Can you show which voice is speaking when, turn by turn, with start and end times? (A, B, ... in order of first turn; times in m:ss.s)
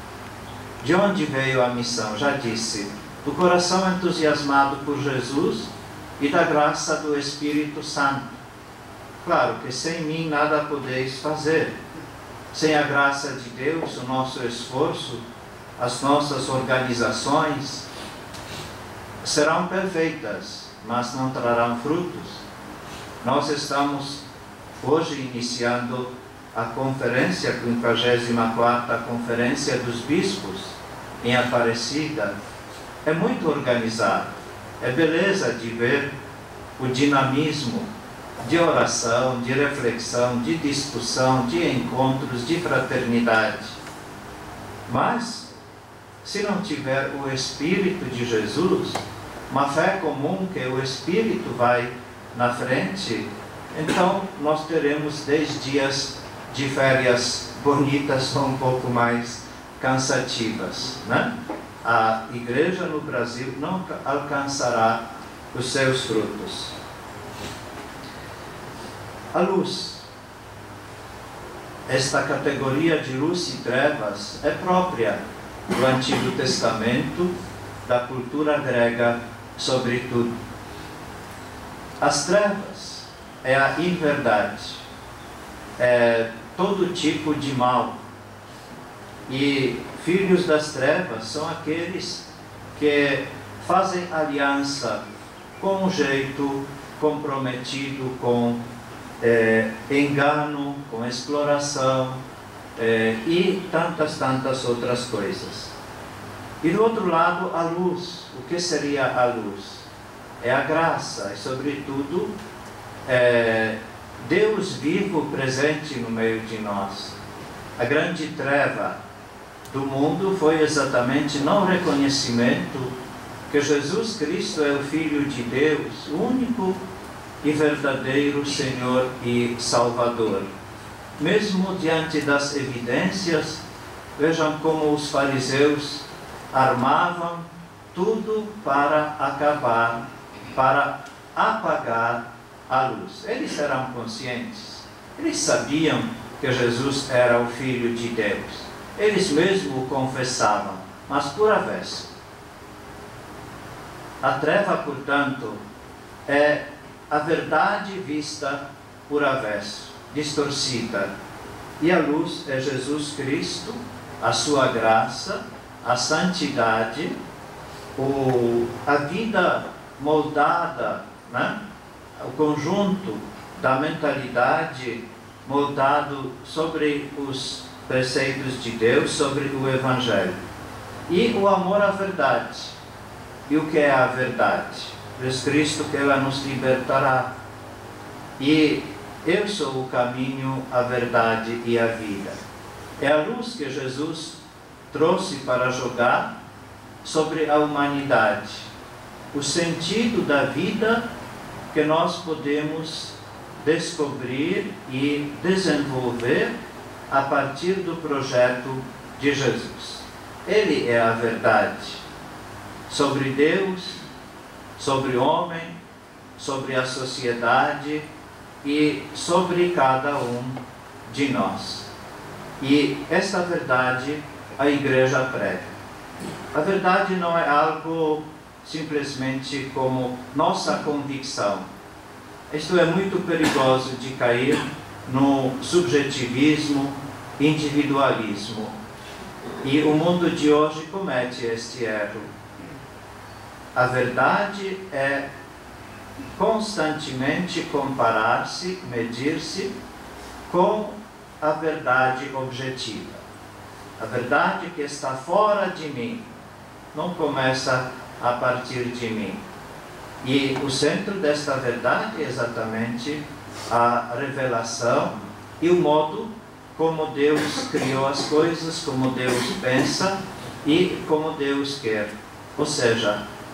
0:00.8-0:08.4 A
0:09.2-0:11.8 A
0:12.5-0:15.2 A
0:15.8-0:17.8 A
0:19.2-0:22.5 A
0:23.2-0:24.2 A
0:24.8-0:32.3 A
0:33.0-0:36.1 A
0:36.8-0:37.9 A
0:38.4-0:43.8 A
0:44.9-0:45.5 A
0:46.2-1:01.3 A
1:01.8-1:06.8 A
1:09.3-1:10.1 A
1:11.9-1:17.3 A
1:17.8-1:20.4 A
1:22.0-1:24.8 A
1:25.8-1:28.0 A
1:29.3-1:35.0 A
1:35.6-1:38.6 A
1:39.2-1:42.2 A
1:42.8-1:45.7 A
1:46.6-1:49.9 A
1:50.4-1:52.3 A
1:53.0-1:57.2 A
1:57.8-1:59.0 A
1:59.7-2:02.9 A
2:03.5-2:06.8 A
2:07.4-2:10.5 A
2:11.2-2:13.6 A
2:14.2-2:32.1 A
2:34.2-2:35.6 A
2:36.3-2:41.1 A
2:41.8-2:47.2 A
2:48.0-2:51.6 A
2:52.2-3:00.4 A
3:01.1-3:02.8 A
3:03.5-3:07.3 A
3:08.4-3:12.4 A
3:13.0-3:14.4 A
3:14.9-3:16.3 A
3:17.0-3:18.7 A
3:19.3-3:21.0 A
3:21.7-3:26.5 A
3:27.1-3:32.0 A
3:32.9-3:34.0 A
3:34.8-3:35.8 A
3:36.4-3:38.1 A
3:38.6-3:41.9 A
3:42.6-3:45.7 A
3:46.5-3:51.7 A
3:52.5-3:58.8 A
3:59.6-4:02.3 A
4:03.8-4:05.3 A
4:06.4-4:09.7 A
4:10.5-4:13.2 A
4:14.0-4:16.3 A
4:16.9-4:19.4 A
4:20.2-4:33.2 A